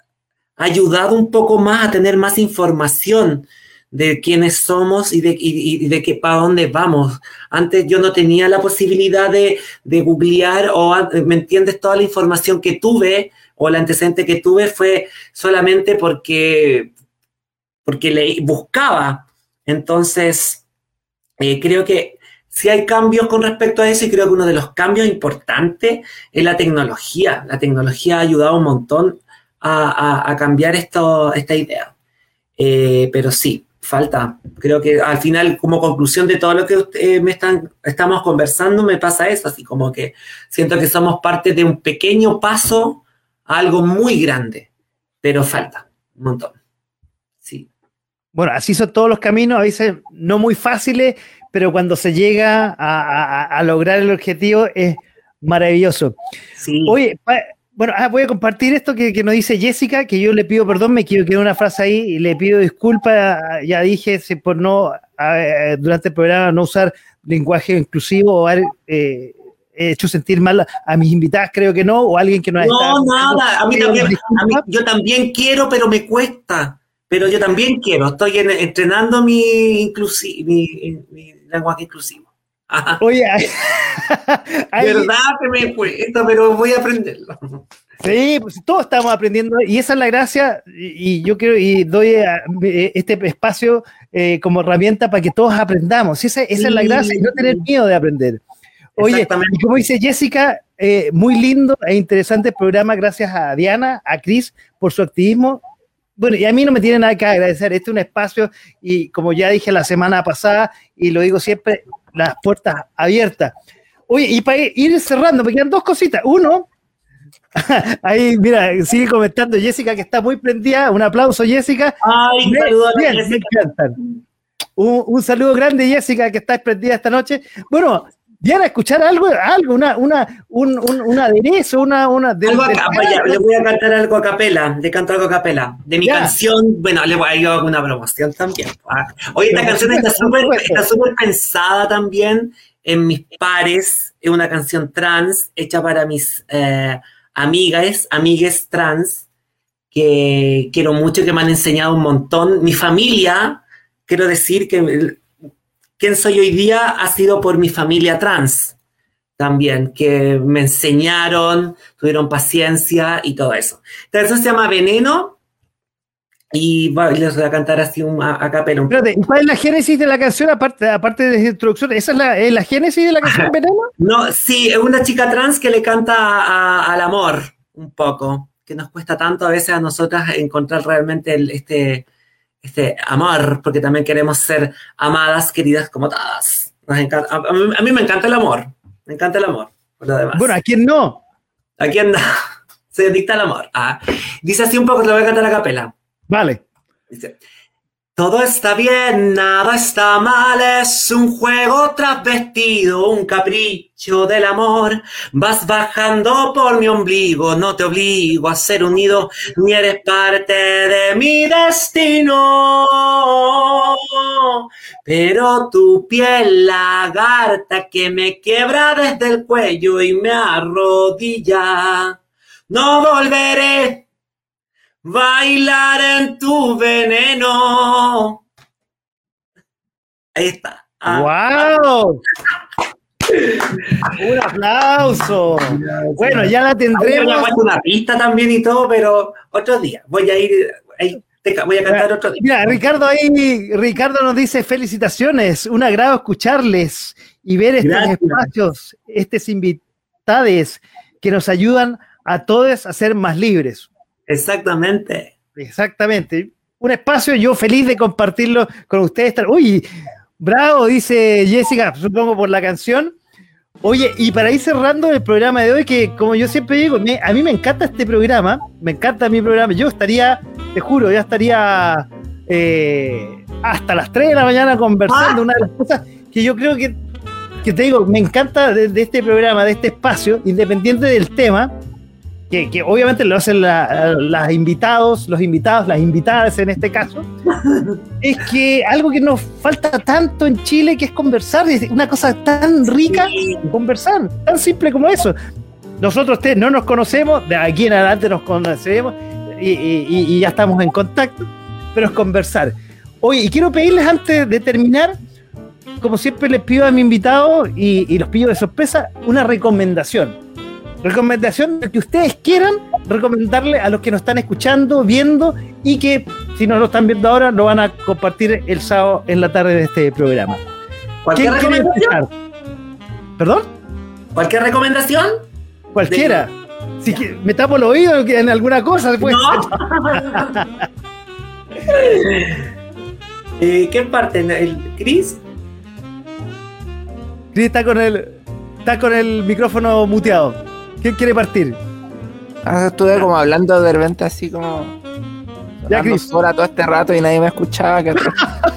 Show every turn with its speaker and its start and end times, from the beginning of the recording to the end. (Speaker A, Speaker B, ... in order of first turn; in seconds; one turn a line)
Speaker A: 0.6-16.9
Speaker A: 17.8-20.6
Speaker A: 21.4-31.9
Speaker A: 32.6-44.7
Speaker A: 45.2-46.5
Speaker B: 48.3-56.1
Speaker A: 56.6-57.0
Speaker B: 56.9-74.6
Speaker A: 72.6-83.0
Speaker B: 83.0-85.1
Speaker A: 84.8-87.6
Speaker B: 88.0-98.4
Speaker A: 96.6-97.6
Speaker B: 99.0-105.6
Speaker A: 99.0-99.7
Speaker B: 106.2-113.5
Speaker B: 114.1-116.7
Speaker B: 117.5-124.0
Speaker A: 122.0-123.5
Speaker B: 124.8-133.4
Speaker A: 132.4-149.2
Speaker B: 136.0-136.3
Speaker B: 139.5-140.8
Speaker A: 149.9-155.2
Speaker A: 156.0-158.8
Speaker A: 159.4-165.4
Speaker A: 166.5-169.1
Speaker B: 168.9-173.9
Speaker A: 173.2-182.1
Speaker A: 182.6-190.5
Speaker B: 190.3-191.2
Speaker A: 191.8-192.3
Speaker A: 192.9-195.9
Speaker B: 196.3-196.6
Speaker A: 197.1-197.3
Speaker A: 198.2-222.2
Speaker A: 222.7-224.1
Speaker A: 225.0-228.4
Speaker A: 230.3-231.7
Speaker B: 231.1-232.2
Speaker A: 233.3-234.1
Speaker B: 234.1-237.5
Speaker A: 235.1-242.7
Speaker B: 241.9-253.9
Speaker A: 247.8-248.5
Speaker A: 254.3-255.3
Speaker B: 255.6-259.9
Speaker B: 260.4-263.1
Speaker B: 263.8-277.0
Speaker A: 275.1-275.4
Speaker B: 277.6-281.7
Speaker B: 282.5-287.3
Speaker A: 287.6-288.0
Speaker B: 288.2-295.3
Speaker A: 293.0-293.7
Speaker B: 296.0-305.2
Speaker B: 306.0-310.4
Speaker B: 311.0-320.6
Speaker A: 321.2-322.2
Speaker B: 321.4-322.3
Speaker B: 323.4-323.7
Speaker A: 324.3-325.4
Speaker B: 325.9-330.7
Speaker A: 326.1-326.4
Speaker A: 329.2-330.6
Speaker A: 331.8-332.7
Speaker A: 333.6-335.4
Speaker B: 337.5-341.8
Speaker C: 342.6-345.0
Speaker C: 345.8-348.4
Speaker B: 345.9-346.2